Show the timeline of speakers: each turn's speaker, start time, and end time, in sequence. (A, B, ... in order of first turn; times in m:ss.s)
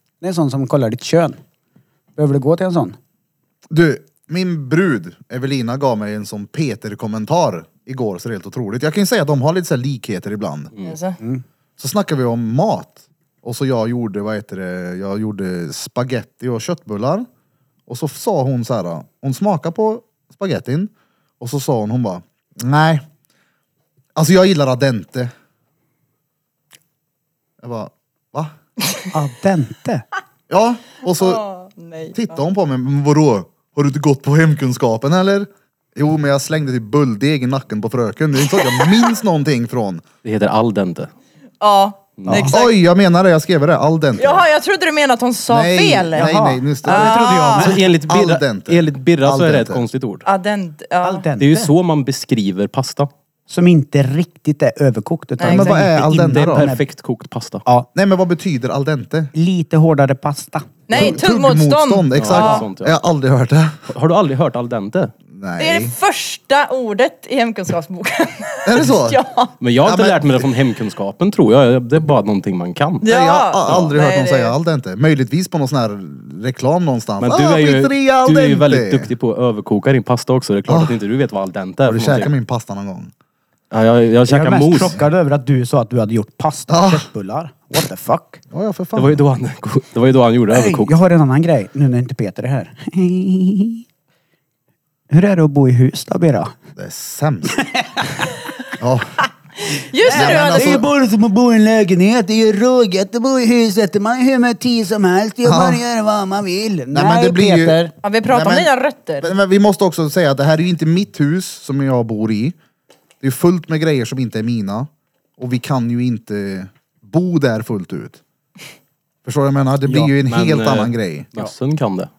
0:00.2-0:01.4 A
0:02.2-0:03.0 A
0:03.7-0:10.7 B
0:10.8-0:11.2 C
0:11.8-0:17.3 B
0:17.9-0:23.0 B
0:24.2-0:25.3 B
0:27.6-0:28.5 B
0:29.1-0:30.0 A
0:30.5-0:31.4 B
0:31.2-0:32.4 C
0:32.1-0:40.0 B
0:40.2-0:41.1 D
0:41.6-0:42.7 C
0:42.2-0:42.5 D
0:42.3-0:42.5 A
0:42.5-0:44.4 B
0:44.2-0:47.7 C
0:45.5-0:49.8 B
0:46.1-0:47.8 A
0:47.5-0:50.2 D
0:50.2-0:51.2 C
0:51.0-0:51.7 A
0:51.4-0:53.1 D
0:53.5-0:56.8 A
0:55.4-0:55.7 C
0:55.4-0:56.7 B
0:56.3-0:57.6 D
0:57.9-0:59.3 B
0:59.3-1:00.9 A
1:00.9-1:02.6 C
1:00.9-1:03.8 B
1:02.1-1:03.0 D
1:03.9-1:05.1 D
1:05.3-1:05.9 B
1:05.6-1:09.5 C
1:08.6-1:09.2 B
1:09.6-1:13.0 D
1:09.8-1:10.5 B
1:13.0-1:14.5 C
1:13.0-1:19.1 B
1:17.2-1:22.3 D
1:20.7-1:21.0 B
1:21.8-1:23.1 B
1:23.7-1:25.0 D
1:24.3-1:28.4 A
1:26.7-1:27.0 B
1:28.5-1:29.2 B
1:28.9-1:30.9 D
1:30.5-1:33.8 A
1:35.1-1:36.5 A
1:36.8-1:37.6 B
1:37.6-1:38.3 A
1:38.8-1:39.1 B
1:39.7-1:40.8 C
1:40.0-1:47.9 A
1:40.1-1:40.9 B
1:45.4-1:45.8 B
1:46.9-1:52.6 B
1:48.0-1:49.3 C
1:53.2-1:58.2 B
1:59.2-2:01.3 B
1:59.9-2:02.1 D